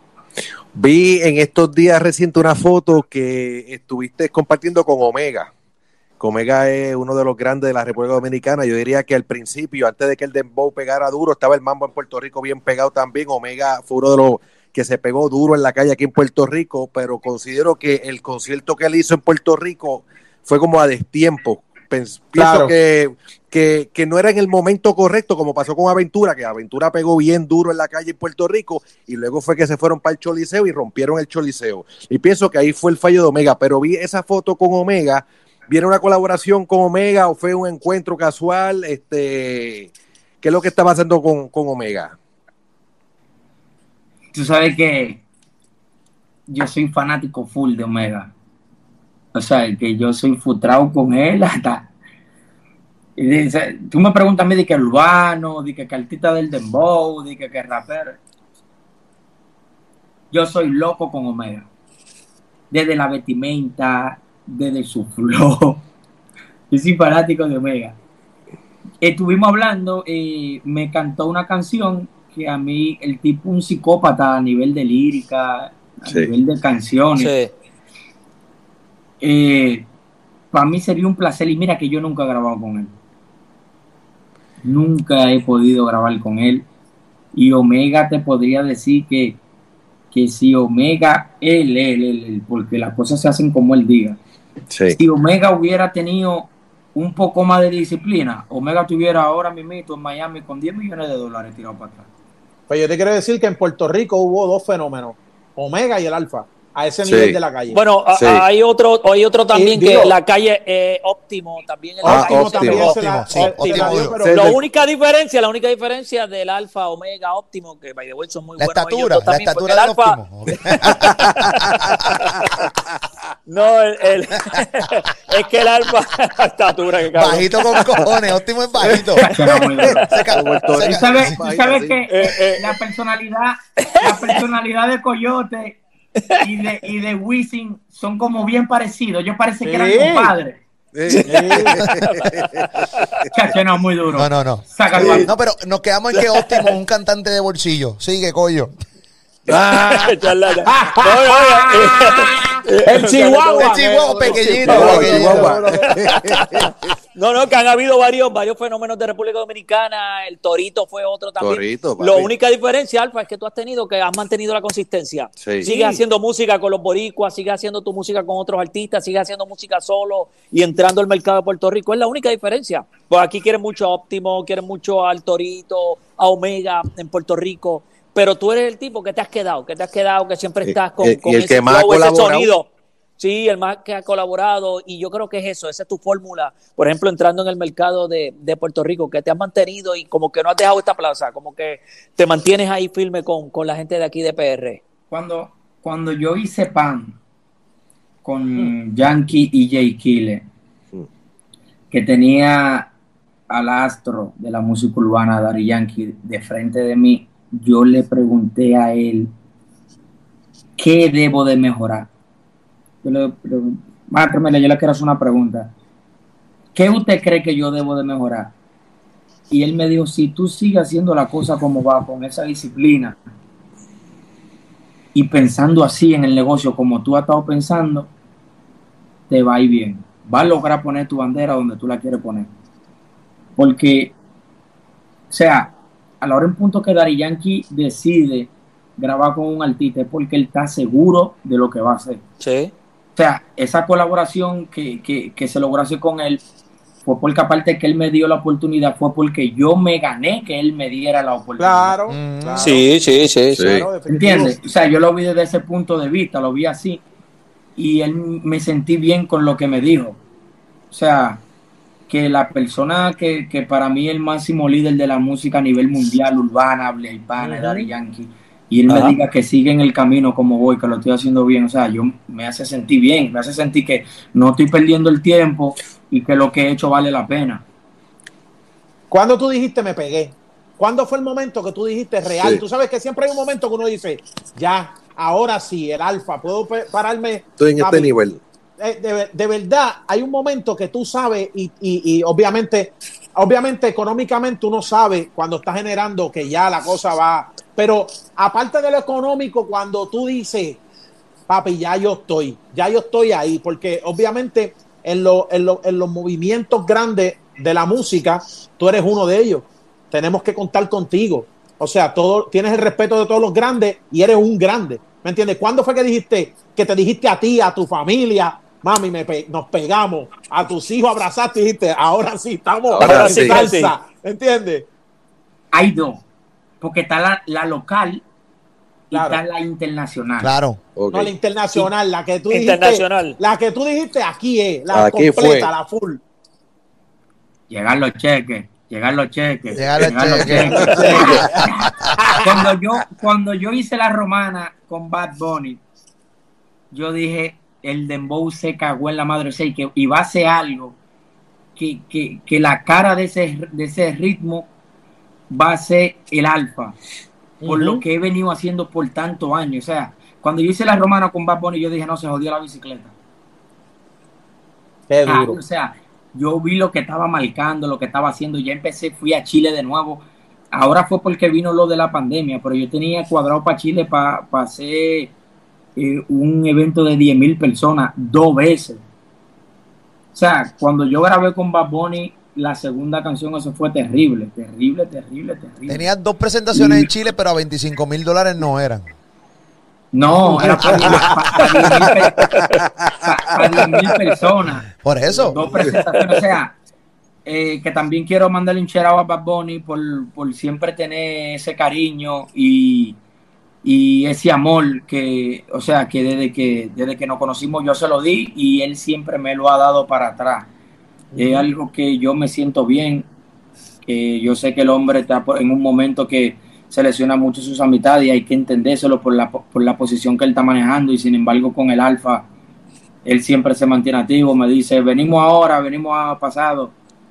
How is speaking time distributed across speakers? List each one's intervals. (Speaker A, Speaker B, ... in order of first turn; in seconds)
Speaker A: 0.7-5.5, 6.2-42.1, 76.1-76.3, 94.7-95.0, 107.0-107.4, 108.1-108.4, 112.0-112.9, 114.2-114.6, 120.8-121.9, 128.8-132.1, 140.9-143.3, 149.5-150.2, 154.6-156.7, 161.4-162.3, 165.4-165.7, 180.6-182.5, 253.5-253.9, 268.9-269.1, 287.6-288.4, 322.9-323.6, 330.9-331.3, 334.9-335.7, 340.4-341.4, 392.8-393.3
Speaker B: 22.3-22.7, 102.7-107.8, 109.5-110.1, 112.0-114.6, 139.6-140.3, 141.2-141.8, 145.0-145.3, 150.7-156.2, 165.6-166.0, 251.6-252.8, 253.6-254.6, 267.4-267.9, 279.1-288.1, 288.8-300.8, 301.5-324.9, 329.1-329.4, 331.1-336.2, 340.4-341.7, 357.6-358.0, 365.1-365.6, 411.3-411.7
Speaker C: 44.3-45.2, 46.5-48.3, 49.3-51.9, 53.2-58.2, 60.3-61.7, 62.7-65.8, 66.7-68.0, 69.0-77.3, 79.2-79.9, 80.5-82.9, 84.6-86.6, 87.3-89.4, 90.1-94.2, 95.0-102.1, 129.3-130.0, 130.8-135.8, 136.4-140.6, 143.3-145.3, 195.1-197.2, 198.2-200.4, 201.9-202.9, 203.5-209.3, 210.8-212.1, 213.0-215.7, 216.7-218.5, 219.5-223.2, 225.1-228.1, 229.3-232.5, 233.6-234.1, 235.3-242.2, 243.2-246.4, 247.0-251.9, 254.1-257.0, 257.8-260.2, 260.9-261.4, 262.1-277.6, 325.7-326.2, 326.8-328.2, 329.1-330.5, 337.7-345.8, 346.9-351.0, 351.8-354.7, 355.5-356.9, 357.6-363.1, 365.2-375.3, 375.9-379.0, 380.3-386.1, 386.7-387.1, 390.1-392.5, 393.2-396.8, 397.4-403.2, 403.8-410.7, 411.4-413.3, 414.1-422.4, 423.2-426.9
Speaker D: 77.2-77.5, 107.7-120.2, 123.5-128.0, 129.2-129.6, 132.1-132.8, 134.0-134.4, 141.1-142.3, 149.9-182.7, 183.2-194.8, 242.4-242.7, 252.6-253.7, 323.0-323.9, 332.5-333.4
Speaker E: 112.8-114.2, 118.6-122.5, 127.1-129.2, 129.9-131.3, 144.2-148.7, 153.5-155.6, 252.1-252.8, 330.4-330.8, 339.7-342.2, 385.9-389.1, 390.3-391.4, 395.0-395.7